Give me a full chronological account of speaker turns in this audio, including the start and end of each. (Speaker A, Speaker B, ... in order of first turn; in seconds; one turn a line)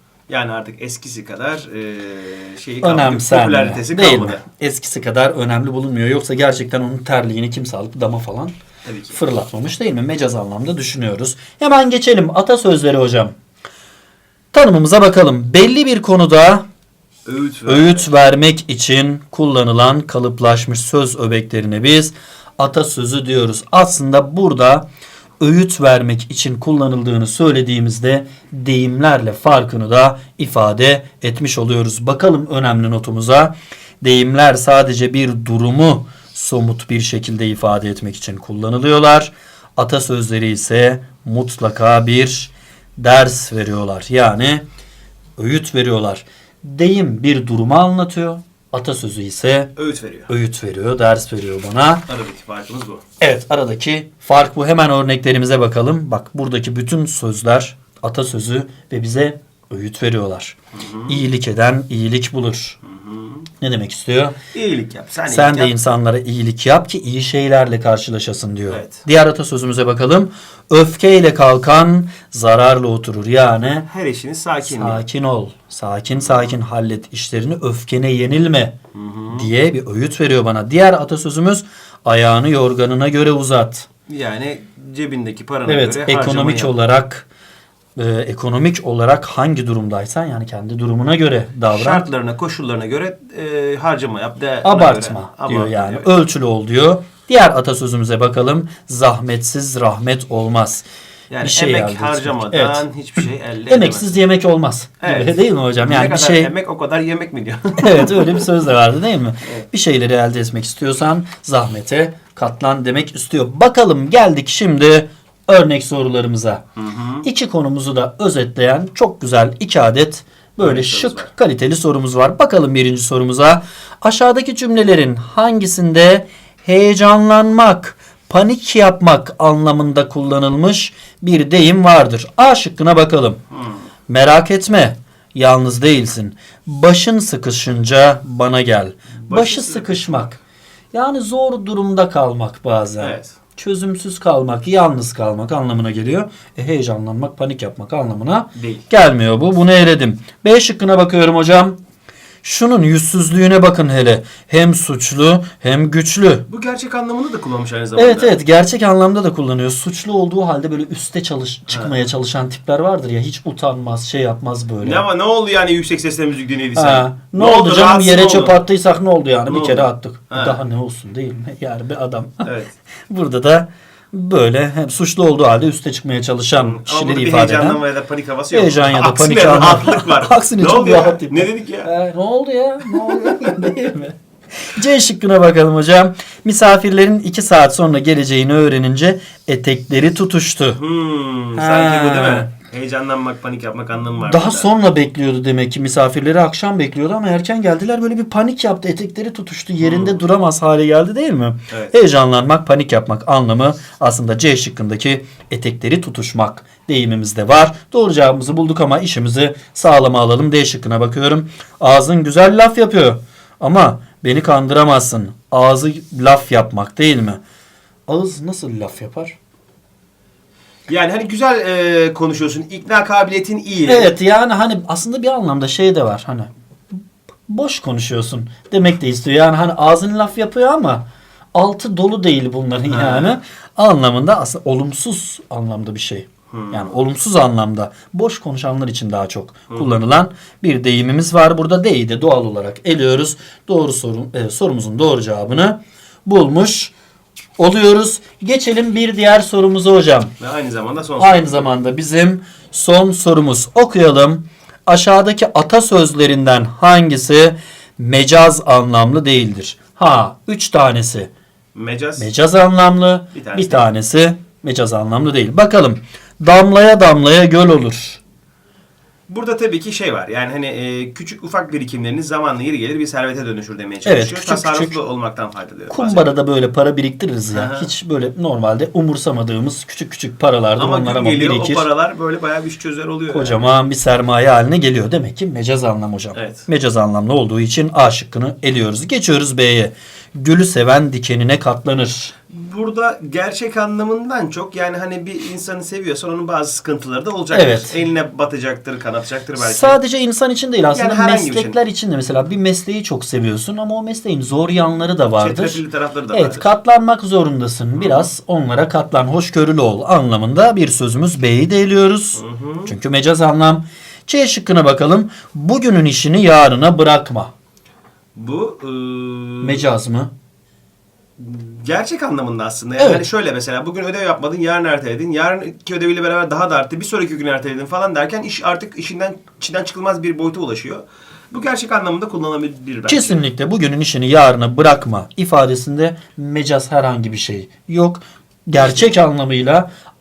Speaker A: 0.3-4.4
Speaker B: 2.8-8.6
Speaker A: 8.8-9.2
Speaker B: 9.1-13.3
Speaker B: 14.5-16.6
Speaker A: 17.3-18.1
Speaker B: 17.7-24.9
Speaker B: 25.4-44.6
Speaker B: 45.4-49.7
Speaker A: 49.8-50.3
Speaker B: 50.3-52.0
Speaker A: 52.1-53.0
Speaker B: 53.2-60.6
Speaker A: 60.7-61.2
Speaker B: 61.1-62.8
Speaker A: 62.9-63.5
Speaker B: 63.6-64.4
Speaker A: 64.5-65.7
Speaker B: 65.3-73.9
Speaker A: 68.7-69.0
Speaker A: 73.8-75.0
Speaker B: 74.6-78.8
Speaker A: 76.2-76.5
Speaker A: 78.9-79.5
Speaker B: 79.3-83.9
Speaker A: 84.1-86.7
Speaker B: 85.7-87.3
Speaker B: 88.0-92.1
Speaker A: 91.7-96.1
Speaker B: 94.6-100.8
Speaker A: 101.3-104.2
Speaker B: 101.4-102.8
Speaker B: 103.7-106.5
Speaker A: 105.0-108.5
Speaker B: 107.8-116.6
Speaker A: 116.8-117.2
Speaker B: 117.2-133.4
Speaker A: 120.6-121.3
Speaker B: 134.1-140.4
Speaker A: 139.1-140.3
Speaker B: 140.9-151.8
Speaker A: 143.0-143.4
Speaker A: 148.6-148.8
Speaker B: 152.4-156.5
Speaker A: 156.5-158.4
Speaker B: 158.0-165.0
Speaker A: 164.8-168.6
Speaker B: 166.8-172.5
Speaker A: 169.5-170.6
Speaker A: 172.4-172.7
Speaker B: 173.1-177.8
Speaker A: 176.6-181.9
Speaker B: 178.5-184.2
Speaker A: 183.2-183.6
Speaker B: 184.7-190.8
Speaker A: 190.8-194.7
Speaker B: 191.6-192.5
Speaker B: 194.3-217.4
Speaker A: 199.8-200.2
Speaker B: 218.1-219.4
Speaker A: 220.9-224.1
Speaker B: 223.9-226.9
Speaker B: 227.5-246.9
Speaker A: 232.9-233.4
Speaker A: 236.5-236.9
Speaker B: 247.6-250.3
Speaker A: 250.4-251.6
Speaker B: 251.2-261.3
Speaker A: 261.7-262.3
Speaker B: 262.2-268.2
Speaker A: 263.3-263.9
Speaker A: 269.3-276.3
Speaker B: 274.1-275.0
Speaker B: 275.9-281.9
Speaker A: 277.5-277.9
Speaker A: 280.8-283.6
Speaker B: 283.3-292.3
Speaker A: 286.3-286.7
Speaker A: 292.5-300.0
Speaker B: 297.5-298.0
Speaker B: 299.6-317.5
Speaker A: 300.9-301.8
Speaker A: 305.4-306.7
Speaker A: 308.0-308.3
Speaker A: 312.4-312.9
Speaker A: 318.4-319.8
Speaker B: 319.6-320.3
Speaker A: 321.4-333.5
Speaker B: 333.1-339.9
Speaker A: 338.8-339.1